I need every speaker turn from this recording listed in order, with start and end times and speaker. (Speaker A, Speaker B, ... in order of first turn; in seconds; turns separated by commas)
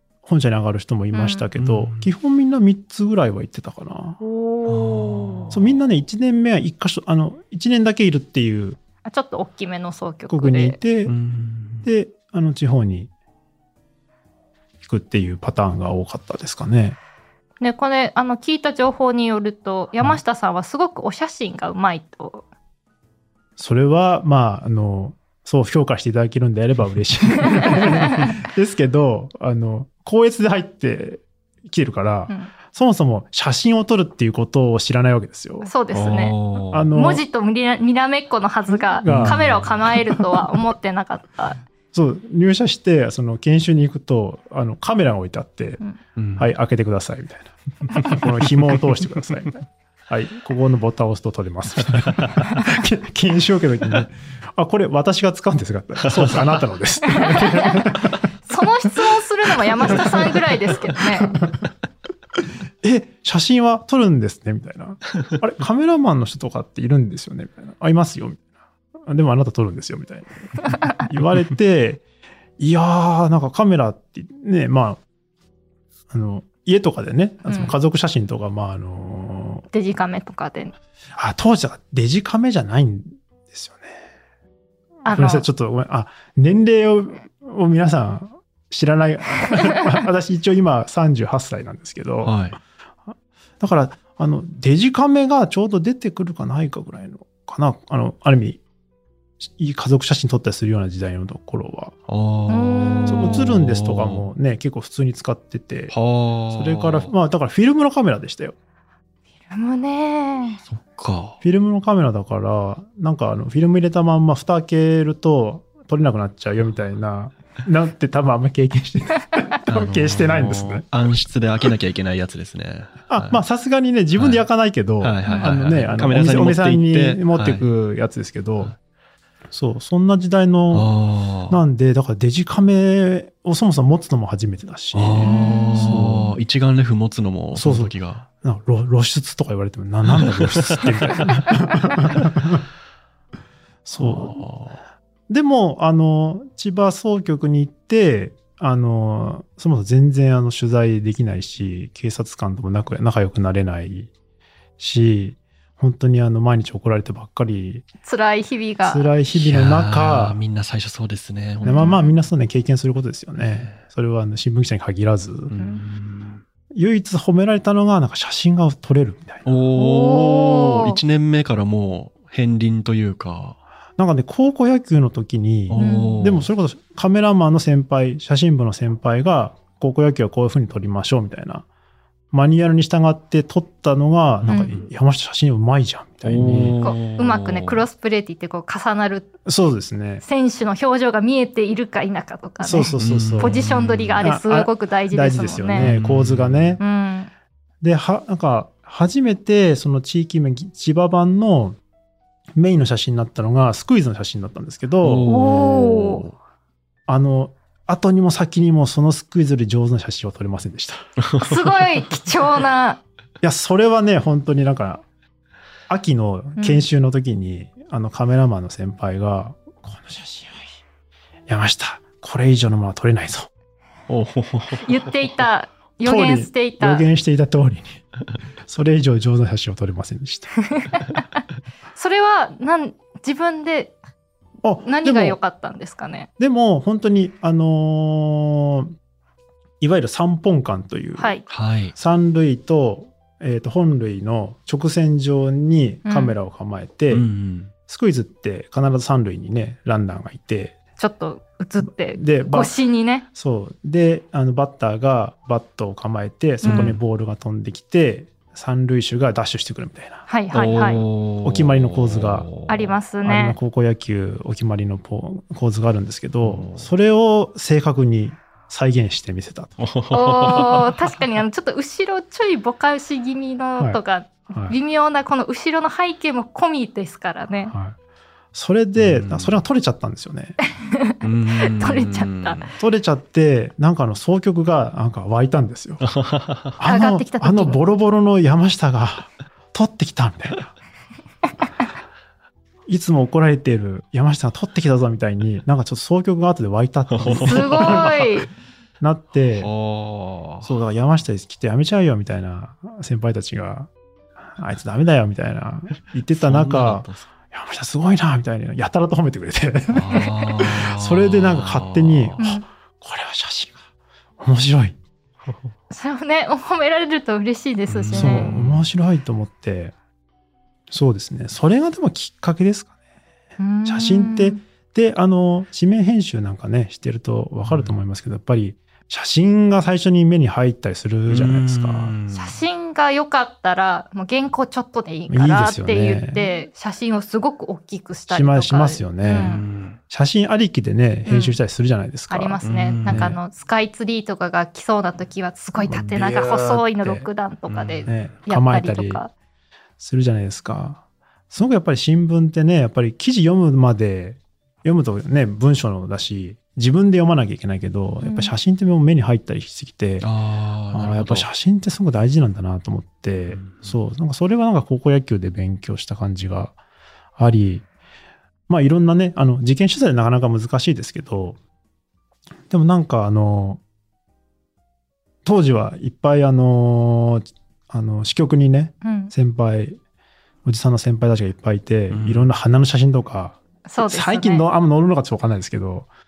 Speaker A: 0.2-4.2, Speaker B: 1.1-1.5, Speaker C: 1.6-2.1, Speaker B: 4.2-5.4, Speaker C: 4.7-5.8, Speaker A: 5.5-8.8, Speaker B: 9.1-10.8, Speaker A: 10.3-11.2, Speaker C: 11.1-11.9, Speaker A: 11.8-13.1, Speaker A: 14.8-17.0, Speaker B: 17.6-22.4, Speaker A: 23.6-35.7, Speaker B: 35.6-36.4, Speaker C: 35.9-36.9, Speaker A: 36.7-37.2, Speaker B: 36.9-41.6, Speaker A: 38.7-40.2, Speaker C: 39.1-39.8, Speaker A: 41.9-45.8, Speaker C: 46.2-46.5, Speaker A: 46.4-58.1, Speaker C: 56.0-56.4, Speaker B: 57.2-57.9, Speaker B: 58.5-61.4, Speaker A: 59.8-60.4, Speaker A: 62.8-68.4, Speaker A: 69.1-72.0, Speaker A: 72.6-75.0, Speaker A: 76.1-79.7, Speaker B: 77.5-77.7, Speaker B: 79.7-80.7, Speaker A: 81.2-84.0, Speaker B: 85.0-85.5, Speaker A: 85.1-92.4, Speaker C: 92.2-92.6, Speaker A: 93.6-98.6, Speaker A: 99.4-102.0, Speaker C: 102.1-104.3, Speaker B: 102.5-103.4, Speaker A: 103.1-106.0, Speaker C: 105.9-107.1, Speaker A: 106.5-108.5, Speaker B: 109.5-110.6, Speaker C: 110.7-111.4, Speaker A: 111.4-120.9, Speaker C: 119.7-123.4, Speaker A: 123.1-128.7, Speaker C: 124.2-124.5, Speaker C: 125.0-127.7, Speaker B: 125.3-125.5, Speaker A: 129.5-130.9, Speaker C: 130.7-131.6, Speaker A: 131.5-136.3, Speaker C: 134.9-138.3, Speaker B: 135.2-135.9, Speaker A: 137.5-142.6, Speaker C: 140.2-141.3, Speaker A: 143.9-144.4, Speaker C: 144.0-144.8, Speaker A: 145.3-154.1, Speaker A: 154.8-157.9, Speaker B: 158.0-159.1, Speaker A: 158.8-160.4, Speaker C: 159.3-162.0, Speaker B: 161.7-162.1, Speaker A: 161.7-165.5, Speaker C: 163.4-163.8, Speaker C: 165.5-166.4, Speaker A: 166.7-169.5, Speaker C: 169.5-173.6, Speaker B: 169.8-171.0, Speaker A: 174.0-181.7, Speaker C: 175.7-176.5, Speaker B: 175.8-176.2, Speaker A: 182.3-186.8, Speaker C: 184.4-184.9, Speaker C: 186.2-187.8, Speaker B: 186.8-189.3, Speaker A: 189.5-190.2, Speaker B: 190.2-195.9, Speaker A: 192.6-193.6, Speaker C: 193.0-194.2, Speaker A: 194.2-196.8, Speaker C: 195.8-196.8, Speaker B: 196.8-197.3, Speaker A: 197.8-201.8, Speaker A: 202.6-205.3, Speaker C: 205.0-206.3, Speaker B: 205.3-206.2, Speaker A: 207.1-211.1, Speaker C: 211.2-212.2, Speaker B: 211.4-213.0, Speaker A: 213.4-215.0, Speaker A: 215.9-220.7, Speaker B: 216.6-216.8, Speaker A: 221.5-223.5, Speaker C: 224.1-225.1, Speaker B: 224.8-227.1, Speaker A: 226.0-228.0, Speaker A: 228.7-230.5, Speaker B: 230.7-231.2, Speaker B: 231.9-233.9, Speaker A: 234.6-235.4, Speaker B: 234.8-236.3, Speaker A: 236.4-238.9, Speaker A: 239.8-247.3, Speaker B: 241.2-241.4, Speaker C: 241.5-241.9, Speaker B: 246.1-246.3, Speaker C: 247.1-247.7, Speaker A: 247.9-250.8, Speaker B: 251.0-253.2, Speaker A: 251.9-252.7, Speaker A: 253.3-260.3, Speaker B: 256.6-256.9, Speaker C: 256.6-257.0, Speaker B: 260.3-261.1, Speaker C: 260.5-262.9, Speaker A: 261.4-262.5, Speaker B: 262.7-263.6, Speaker A: 263.2-269.8, Speaker C: 266.4-266.9, Speaker C: 269.8-270.9, Speaker B: 270.1-277.7, Speaker A: 273.8-274.8, Speaker A: 277.7-278.0, Speaker A: 278.5-280.6, Speaker C: 279.0-279.5, Speaker B: 280.9-282.6, Speaker C: 281.2-282.7, Speaker A: 282.8-286.1, Speaker C: 286.0-286.7, Speaker A: 286.8-290.7, Speaker B: 286.9-287.8, Speaker A: 292.9-298.2, Speaker C: 297.1-298.2, Speaker B: 297.4-298.5, Speaker A: 299.0-299.7, Speaker C: 299.5-300.7, Speaker A: 300.6-303.9, Speaker A: 304.6-313.8, Speaker C: 306.3-307.3, Speaker C: 309.9-312.4, Speaker B: 312.4-312.6, Speaker A: 314.4-315.0, Speaker B: 315.9-318.5, Speaker C: 317.9-318.9, Speaker A: 318.2-319.9, Speaker A: 320.9-322.9, Speaker B: 323.6-324.6, Speaker A: 323.9-332.1, Speaker C: 327.6-327.9, Speaker C: 331.3-332.6, Speaker B: 332.3-339.6, Speaker A: 335.3-336.4, Speaker A: 338.3-343.4, Speaker C: 339.3-340.0, Speaker B: 341.3-341.6, Speaker B: 342.3-349.3, Speaker C: 342.6-343.4, Speaker A: 345.8-347.3, Speaker C: 347.7-348.2, Speaker A: 348.1-349.2, Speaker A: 350.0-360.3, Speaker B: 358.2-358.5, Speaker C: 360.2-361.5, Speaker A: 360.9-366.8, Speaker C: 363.5-363.9, Speaker A: 367.4-367.9, Speaker A: 368.7-371.6, Speaker A: 372.7-373.8, Speaker A: 375.4-380.0, Speaker B: 379.0-379.3, Speaker A: 380.6-386.1, Speaker C: 382.1-382.5, Speaker B: 383.9-384.6